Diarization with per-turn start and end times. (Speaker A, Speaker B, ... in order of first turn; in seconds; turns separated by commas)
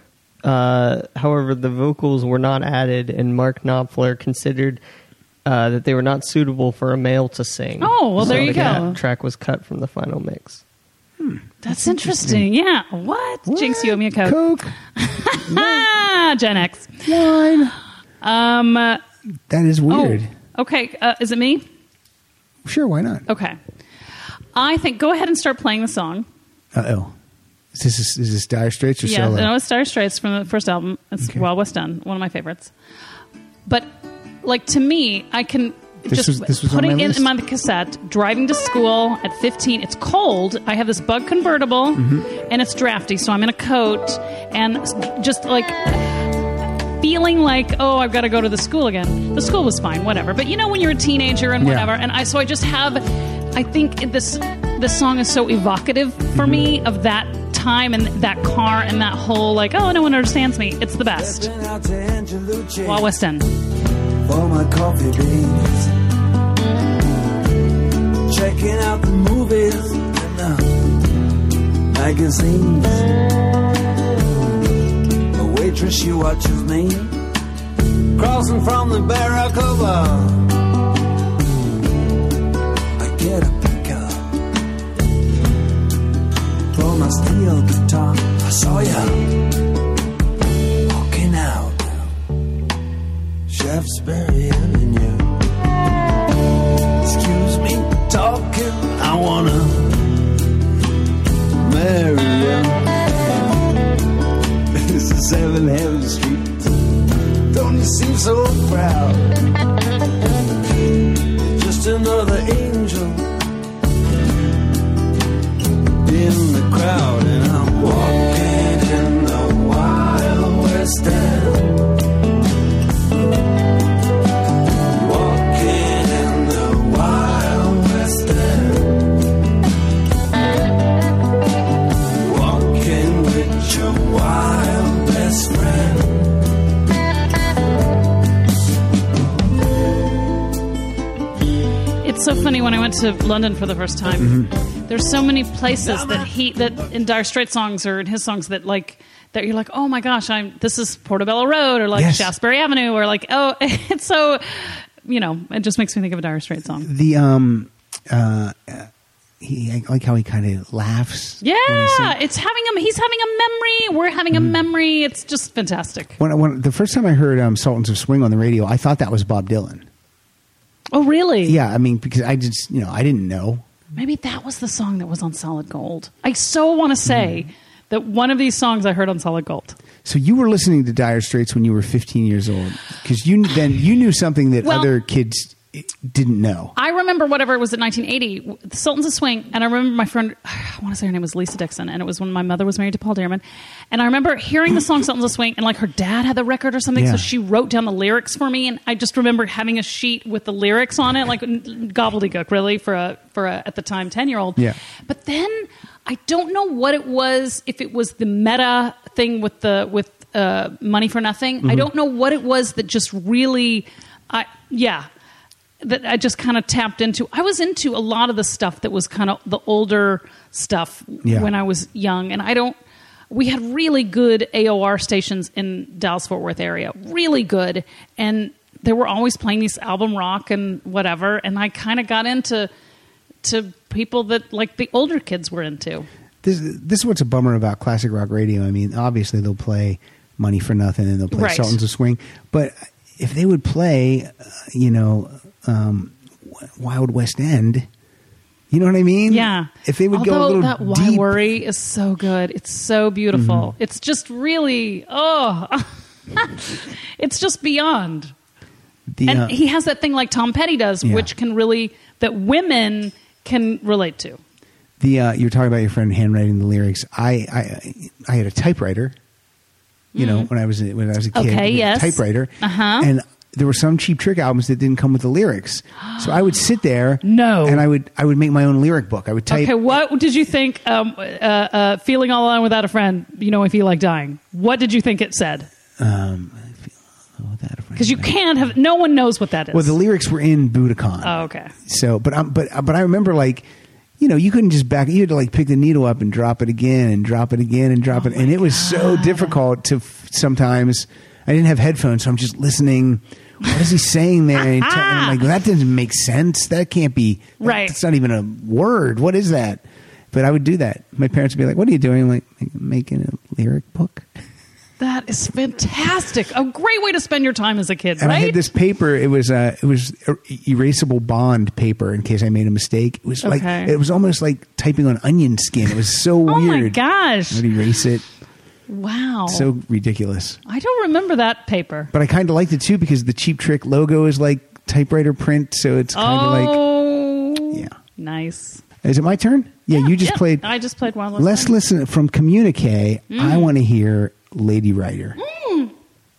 Speaker A: 0.4-4.8, Speaker A: 5.5-10.6, Speaker B: 7.8-9.0, Speaker C: 8.2-8.8, Speaker C: 11.2-12.5, Speaker B: 11.6-14.4, Speaker C: 13.5-14.8, Speaker B: 14.9-17.0, Speaker C: 15.4-15.9, Speaker C: 17.1-17.8, Speaker B: 18.2-19.0, Speaker C: 19.5-20.3, Speaker B: 19.9-21.6, Speaker C: 22.6-23.3, Speaker B: 23.3-23.6, Speaker B: 24.6-26.3, Speaker C: 26.7-27.1, Speaker C: 27.7-29.5, Speaker B: 29.0-32.7, Speaker B: 34.4-46.2, Speaker C: 36.1-37.3, Speaker C: 42.0-42.3, Speaker B: 47.0-61.5, Speaker C: 51.6-51.9, Speaker C: 56.4-56.8, Speaker D: 61.1-63.1, Speaker B: 62.8-63.5, Speaker D: 64.2-65.9, Speaker D: 68.2-70.9, Speaker D: 71.9-73.2, Speaker D: 75.3-77.2, Speaker D: 78.1-80.6, Speaker D: 83.0-84.3, Speaker D: 86.7-89.4, Speaker D: 90.8-92.1, Speaker D: 93.5-95.4, Speaker D: 97.0-100.2, Speaker D: 101.6-103.0, Speaker D: 104.7-106.8, Speaker D: 107.5-109.4, Speaker D: 111.3-113.3, Speaker D: 116.0-121.8, Speaker D: 124.9-129.0, Speaker D: 132.2-136.4, Speaker B: 142.0-156.9, Speaker C: 144.2-144.5, Speaker D: 145.8-146.3, Speaker C: 151.9-152.3, Speaker C: 156.8-158.9, Speaker C: 159.4-162.2, Speaker B: 161.4-166.2, Speaker C: 164.3-164.6, Speaker C: 166.2-169.9, Speaker B: 170.9-171.6, Speaker C: 171.4-173.6, Speaker B: 174.0-179.8, Speaker C: 177.1-177.4, Speaker C: 180.1-186.8, Speaker B: 184.6-184.9, Speaker B: 186.8-215.1, Speaker C: 196.9-197.3, Speaker C: 211.6-211.9, Speaker B: 215.8-222.8, Speaker C: 221.2-221.5, Speaker B: 223.3-232.7, Speaker B: 233.4-236.1, Speaker C: 236.4-247.9, Speaker B: 241.3-241.8, Speaker C: 248.7-251.5, Speaker B: 249.3-258.3, Speaker C: 253.3-253.7, Speaker C: 259.1-259.6, Speaker B: 259.3-264.4, Speaker C: 261.0-261.3, Speaker C: 265.0-269.1, Speaker B: 270.1-270.5, Speaker C: 270.2-279.8, Speaker B: 271.3-273.1, Speaker B: 277.2-277.9, Speaker B: 279.5-285.7, Speaker C: 286.0-288.4, Speaker B: 288.0-290.0, Speaker C: 289.7-293.7, Speaker B: 291.2-291.7, Speaker C: 294.2-314.3, Speaker B: 298.1-299.6, Speaker B: 304.6-305.4, Speaker B: 307.6-308.0, Speaker B: 315.0-318.6, Speaker C: 318.2-328.2, Speaker B: 323.4-323.9, Speaker B: 326.5-327.7, Speaker B: 328.9-329.7, Speaker C: 329.5-330.6, Speaker B: 330.7-332.1, Speaker C: 332.1-336.9, Speaker B: 336.1-338.8, Speaker C: 339.0-340.7, Speaker B: 339.9-341.7, Speaker C: 341.4-345.4, Speaker B: 343.3-343.7, Speaker B: 345.4-345.9